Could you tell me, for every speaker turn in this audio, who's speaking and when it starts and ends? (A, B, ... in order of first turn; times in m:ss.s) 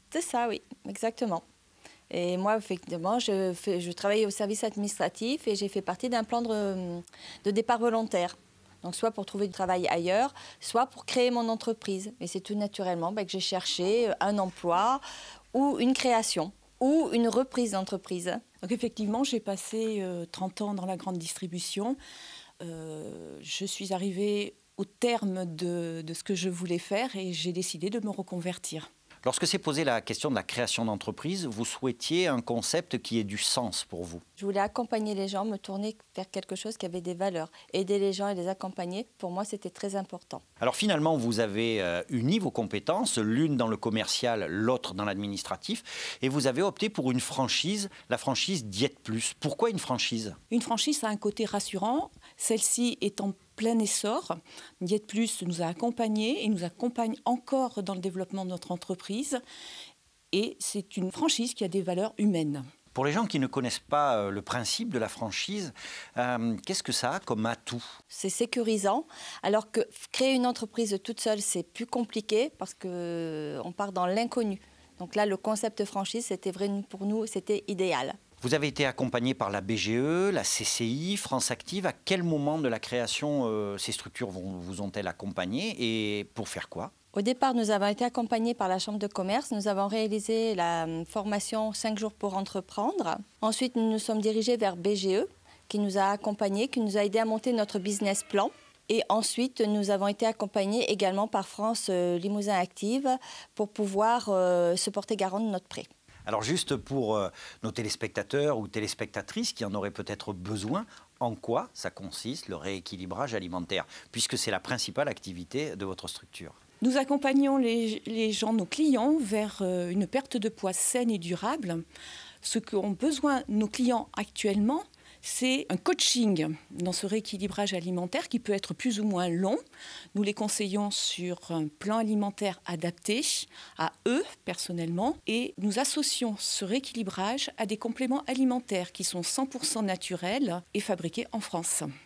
0:00.1-0:01.4 A
0:02.1-0:18.4 A
0:18.6-0:22.0 B
0:22.6-0:28.9 B
0:29.2-0:34.2 C
0:34.4-0:40.4 A
0:40.6-0:50.4 C
0:50.5-0:59.4 B
1:00.3-1:02.6 B
1:02.9-1:07.8 C
1:08.1-1:18.2 A
1:18.4-1:26.9 C
1:27.1-1:45.9 A
1:46.3-1:56.6 C
1:56.8-2:01.8 B
2:02.4-2:09.6 B
2:10.1-2:21.9 B